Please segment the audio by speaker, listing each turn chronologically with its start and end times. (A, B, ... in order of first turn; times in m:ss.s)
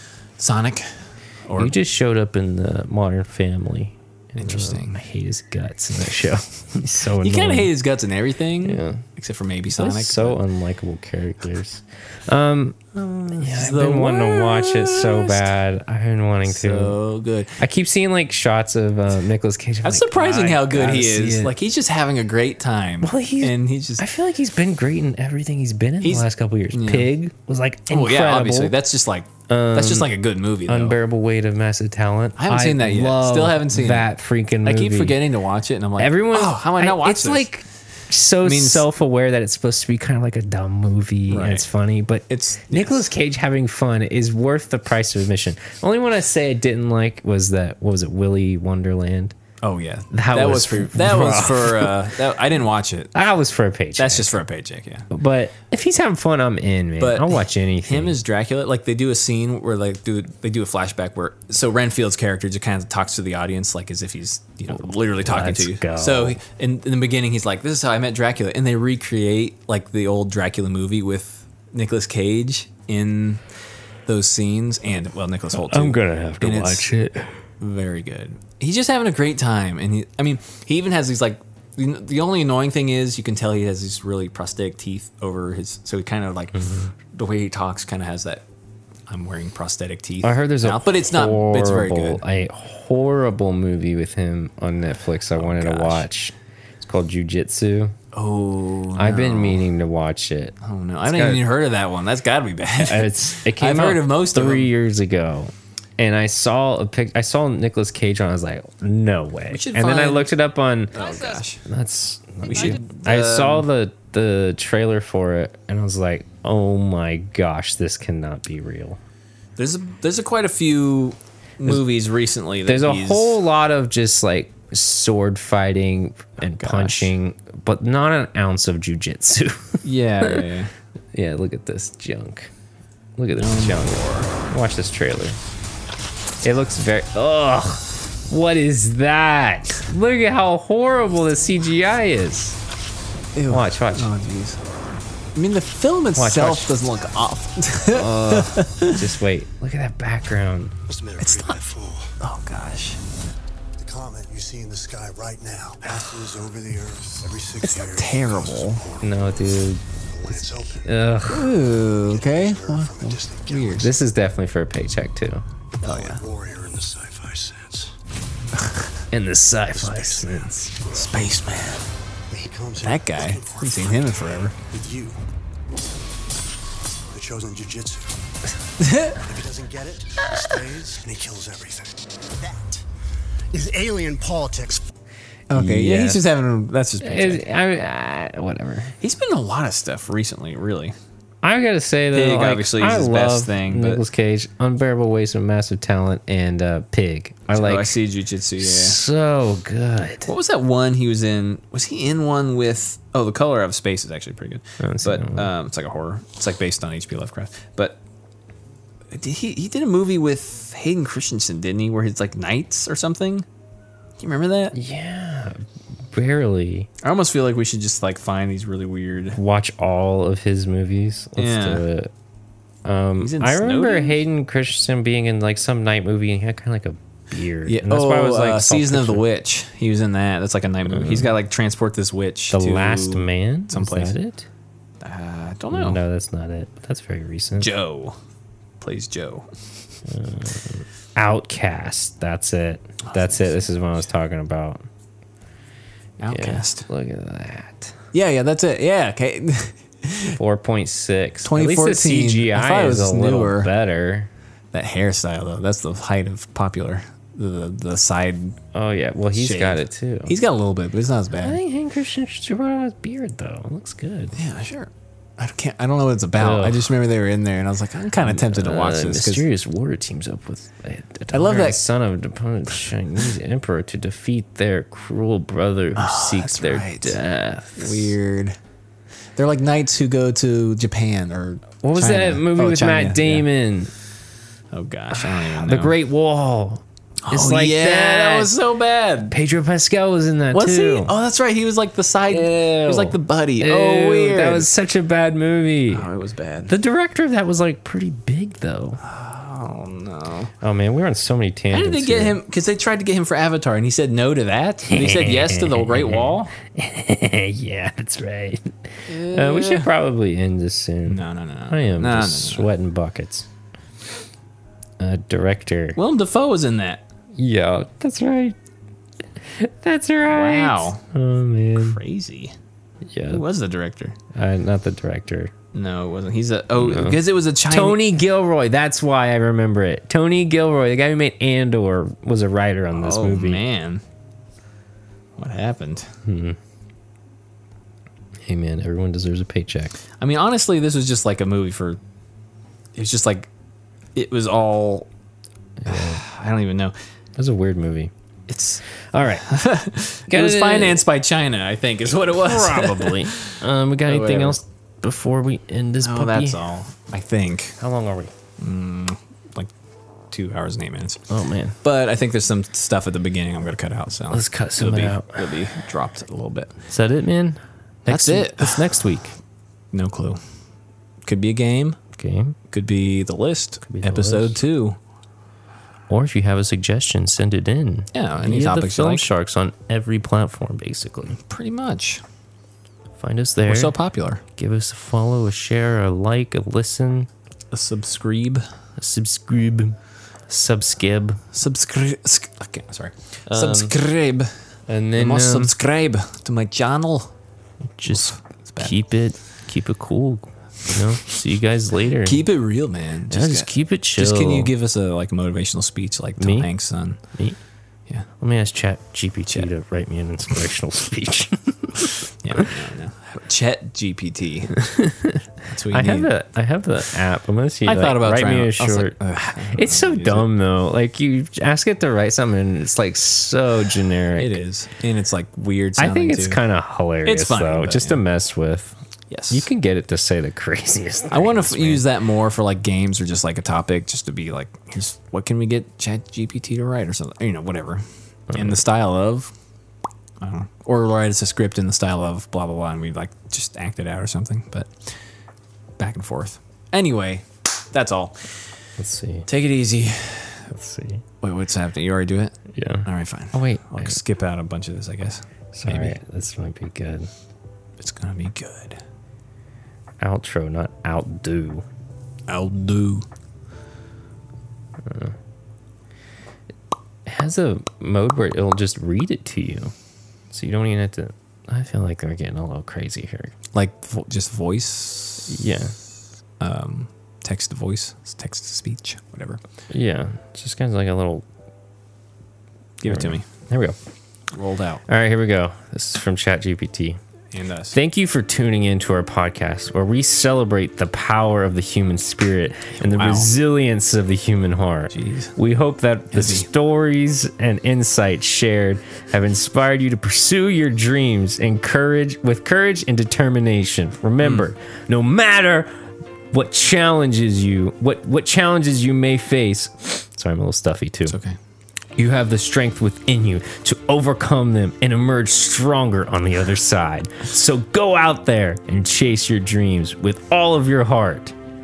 0:00.4-0:01.7 A
0:01.6-0:07.7 B
0:04.4-0:05.0 A
0:07.2-0:10.4 A
0:08.6-0:09.0 B
0:09.7-0:17.0 B
0:13.0-0:15.5 A
0:16.4-0:17.6 A
0:17.6-0:21.5 B
0:19.8-0:24.0 A
0:23.0-0:28.8 B
0:26.0-0:27.1 A
0:27.9-0:31.0 A
0:29.5-0:30.1 B
0:30.6-0:35.2 B
0:32.4-0:37.5 A
0:36.0-0:49.3 B
0:38.4-0:38.8 A
0:41.3-0:41.6 A
0:42.3-0:43.1 A
0:49.6-0:53.1 A
0:50.1-0:52.0 B
0:53.1-0:54.4 B
0:54.0-0:55.1 A
0:55.1-0:58.2 B
0:57.0-1:13.4 A
1:04.8-1:06.4 B
1:14.0-1:16.9 A
1:15.6-1:17.4 B
1:17.6-1:28.4 A
1:26.5-1:26.9 B
1:29.1-1:32.2 A
1:30.2-1:37.9 B
1:35.3-1:36.1 A
1:38.1-1:39.6 A
1:39.0-1:41.4 B
1:40.6-1:44.7 A
1:42.8-1:51.0 B
1:49.5-1:50.3 A
1:50.9-1:51.6 A
1:51.6-1:59.0 B
1:52.5-1:53.6 A
1:59.6-2:03.4 A
2:02.6-2:10.4 B
2:06.4-2:07.1 A
2:09.8-2:10.7 A
2:11.1-2:12.5 B
2:13.2-2:15.4 B
2:13.4-2:14.3 A
2:16.4-2:22.6 B
2:23.3-2:24.6 A
2:23.5-2:24.1 B
2:25.3-2:29.0 A
2:26.2-2:26.8 B
2:27.9-2:30.7 B
2:30.9-2:32.1 C
2:31.2-2:31.6 A
2:32.2-2:33.0 A
2:33.8-2:39.5 C
2:35.9-2:36.2 A
2:37.6-2:38.8 A
2:39.0-2:41.5 B
2:40.0-2:40.9 C
2:41.3-2:43.9 A
2:41.6-2:43.9 C
2:43.8-2:45.4 B
2:45.8-2:47.9 C
2:45.8-2:46.2 A
2:49.1-2:50.8 B
2:49.7-2:51.0 C
2:50.9-2:51.9 A
2:52.3-2:55.2 C
2:52.8-2:54.6 A
2:57.1-2:58.2 C
2:58.8-2:59.2 A
2:59.1-3:02.8 C
3:03.5-3:04.9 C
3:05.5-3:07.4 A
3:05.5-3:06.2 B
3:07.0-3:09.0 B
3:09.0-3:11.0 A
3:11.4-3:18.0 B
3:12.1-3:14.0 A
3:17.5-3:19.0 A
3:18.6-3:20.3 B
3:20.2-3:28.0 A
3:24.8-3:25.5 B
3:29.1-3:33.4 A
3:34.2-3:34.7 A
3:34.7-3:36.9 B
3:37.0-3:39.4 A
3:39.3-3:42.1 B
3:41.4-3:41.8 A
3:42.8-3:49.2 B
3:43.2-3:44.2 A
3:47.6-3:54.1 A
3:50.8-3:51.3 B
3:52.5-3:54.5 B
3:55.0-3:56.0 A
3:55.7-3:57.7 B
3:57.6-3:58.2 A
3:58.8-3:59.5 A
4:00.1-4:04.8 B
4:03.1-4:03.6 A
4:06.2-4:06.9 A
4:06.3-4:08.0 B
4:08.1-4:10.4 A
4:10.3-4:14.3 B
4:11.4-4:13.7 A
4:14.7-4:18.6 A
4:18.7-4:20.4 B
4:19.3-4:21.6 A
4:21.4-4:24.4 B
4:24.3-4:29.4 A
4:26.4-4:26.9 B
4:28.2-4:38.1 B
4:31.3-4:31.8 A
4:36.0-4:37.2 A
4:37.8-4:38.6 A
4:39.4-4:43.5 A
4:41.8-4:43.9 B
4:44.7-4:46.0 A
4:45.1-4:48.5 B
4:47.2-4:49.4 A
4:49.3-4:51.1 B
4:50.5-4:54.7 A
4:52.3-4:56.1 B
4:55.9-4:56.7 A
4:56.7-4:59.0 B
4:59.0-5:00.5 A
5:00.6-5:02.4 B
5:01.7-5:06.5 A
5:04.9-5:13.5 B
5:09.1-5:09.9 A
5:11.0-5:12.7 A
5:15.0-5:16.0 B
5:16.0-5:17.0 A
5:17.3-5:18.6 B
5:19.4-5:22.0 B
5:20.3-5:21.0 A
5:21.7-5:22.5 A
5:23.1-5:23.4 B
5:23.3-5:24.2 A
5:24.3-5:25.5 B
5:25.7-5:28.0 A
5:26.8-5:33.6 B
5:32.9-5:34.0 A
5:35.4-5:36.1 A
5:36.2-5:36.6 B
5:38.4-5:40.0 B
5:40.2-5:42.0 A
5:42.9-5:43.5 A
5:44.1-5:45.1 A
5:45.8-5:46.2 B
5:45.8-5:46.9 A
5:47.4-5:48.1 B
5:48.5-5:54.6 A
5:49.1-5:49.5 B
5:50.3-5:51.0 B
5:52.3-5:56.6 B
5:56.0-5:57.8 A
5:57.8-5:58.3 B
5:58.6-5:59.7 A
6:00.3-6:01.2 A
6:01.3-6:01.8 B
6:01.8-6:06.7 A
6:04.3-6:05.8 B
6:06.9-6:09.3 B
6:08.1-6:08.9 A
6:09.9-6:10.4 A
6:11.2-6:12.0 A
6:12.2-6:12.5 B
6:12.7-6:15.0 A
6:13.8-6:14.6 B
6:16.1-6:21.4 B
6:18.1-6:19.3 A
6:21.3-6:22.2 A
6:23.2-6:24.0 B
6:23.7-6:24.4 A
6:24.5-6:27.3 B
6:27.7-6:28.7 A
6:29.0-6:30.0 B
6:30.5-6:31.4 B
6:31.5-6:34.5 A
6:33.5-6:33.9 B
6:34.9-6:35.7 B
6:35.1-6:37.3 A
6:38.0-6:42.4 B
6:38.1-6:38.9 A
6:42.2-6:47.2 A
6:43.3-6:44.7 B
6:46.4-6:46.7 B
6:48.4-6:52.7 B
6:52.4-6:54.8 A
6:54.8-7:04.6 B
6:55.6-6:56.3 A
6:57.8-7:00.5 A
7:04.4-7:06.6 A
7:06.0-7:09.0 B
7:07.2-7:08.2 A
7:09.3-7:09.7 A
7:09.5-7:12.0 B
7:11.3-7:19.5 A
7:20.4-7:25.2 A
7:26.0-7:28.6 A
7:29.0-7:29.5 B
7:29.5-7:30.7 A
7:30.7-7:31.2 B
7:31.4-7:36.2 A
7:32.7-7:34.2 B
7:35.7-7:37.3 B
7:38.0-7:39.0 A
7:40.2-7:41.8 B
7:42.5-7:43.2 A
7:45.0-7:45.3 B
7:47.2-7:49.9 B
7:50.5-7:53.5 B
7:53.7-7:55.6 A
7:55.5-7:56.0 B
7:56.6-7:59.6 A
7:59.9-8:01.4 B
8:03.0-8:03.4 A
8:03.0-8:04.0 B
8:04.5-8:05.0 A
8:05.0-8:07.2 B
8:07.5-8:08.0 A
8:07.9-8:25.9 B
8:12.9-8:13.5 A
8:15.1-8:15.5 A
8:16.3-8:16.7 A
8:24.4-8:24.7 A
8:26.5-8:31.4 B
8:31.3-8:31.6 A
8:32.2-8:41.5 B